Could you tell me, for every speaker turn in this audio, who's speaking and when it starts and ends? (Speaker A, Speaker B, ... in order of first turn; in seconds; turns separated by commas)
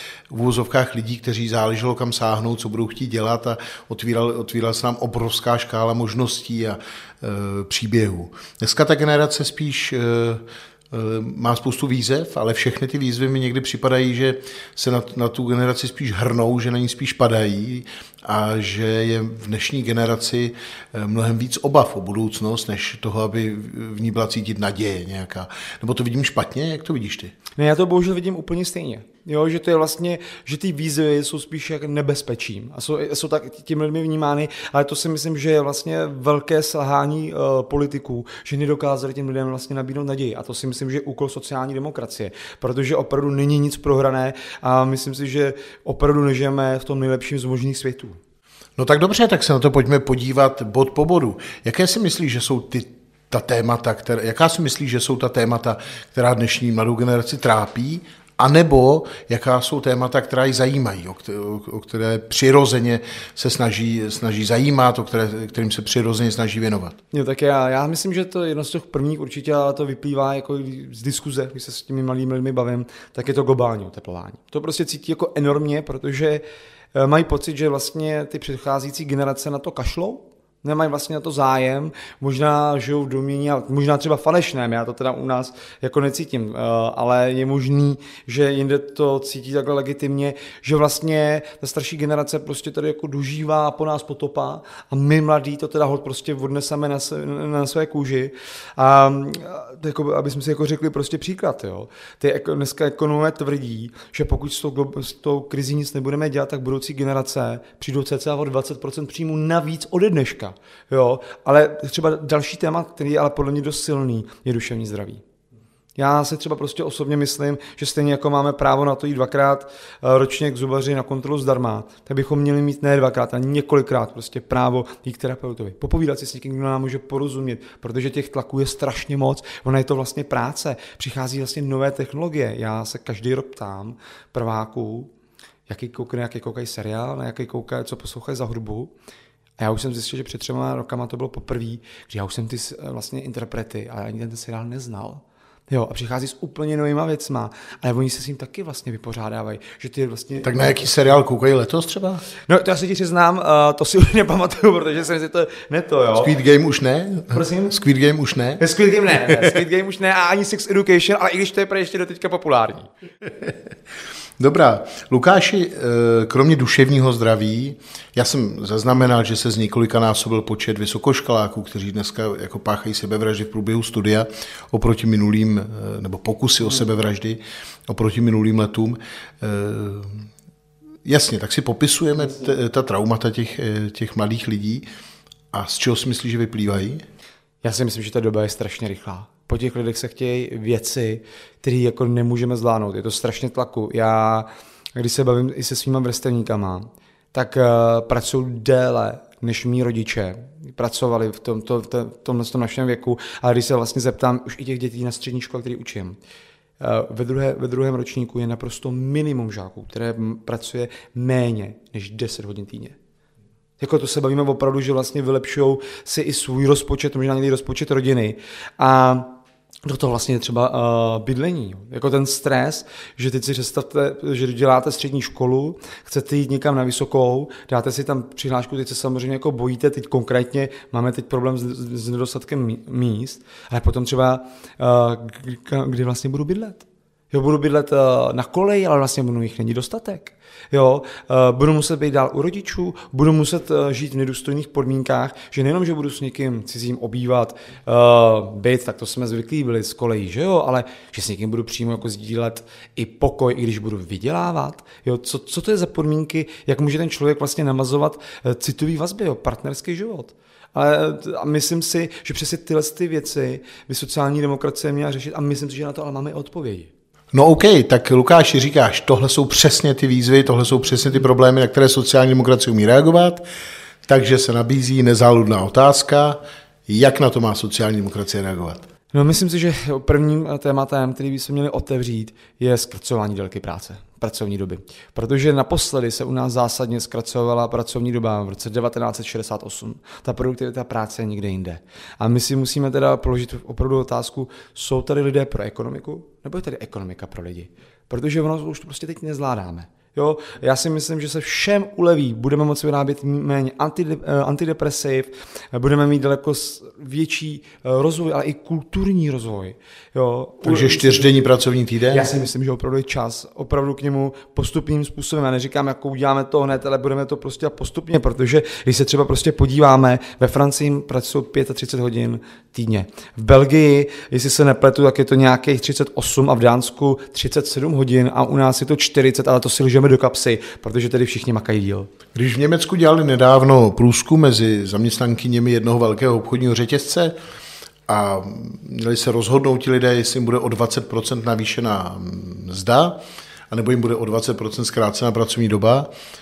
Speaker A: 0.3-27.3, Speaker B: 27.6-48.2, Speaker A: 48.8-67.0, Speaker B: 67.1-76.4, Speaker B: 76.9-115.2, Speaker B: 116.0-135.1, Speaker B: 135.7-138.9, Speaker B: 139.6-150.8, Speaker A: 150.4-152.2, Speaker B: 152.5-156.3, Speaker A: 156.2-158.6, Speaker B: 157.3-157.8, Speaker B: 158.6-162.9, Speaker A: 164.4-180.2, Speaker A: 181.1-184.9, Speaker A: 185.5-187.0, Speaker B: 187.6-206.2, Speaker B: 206.8-213.0, Speaker B: 213.8-266.9, Speaker A: 267.3-273.4, Speaker A: 274.1-278.8, Speaker B: 279.1-311.3, Speaker A: 310.6-312.3, Speaker B: 312.1-332.1, Speaker A: 332.4-337.3, Speaker A: 338.1-346.1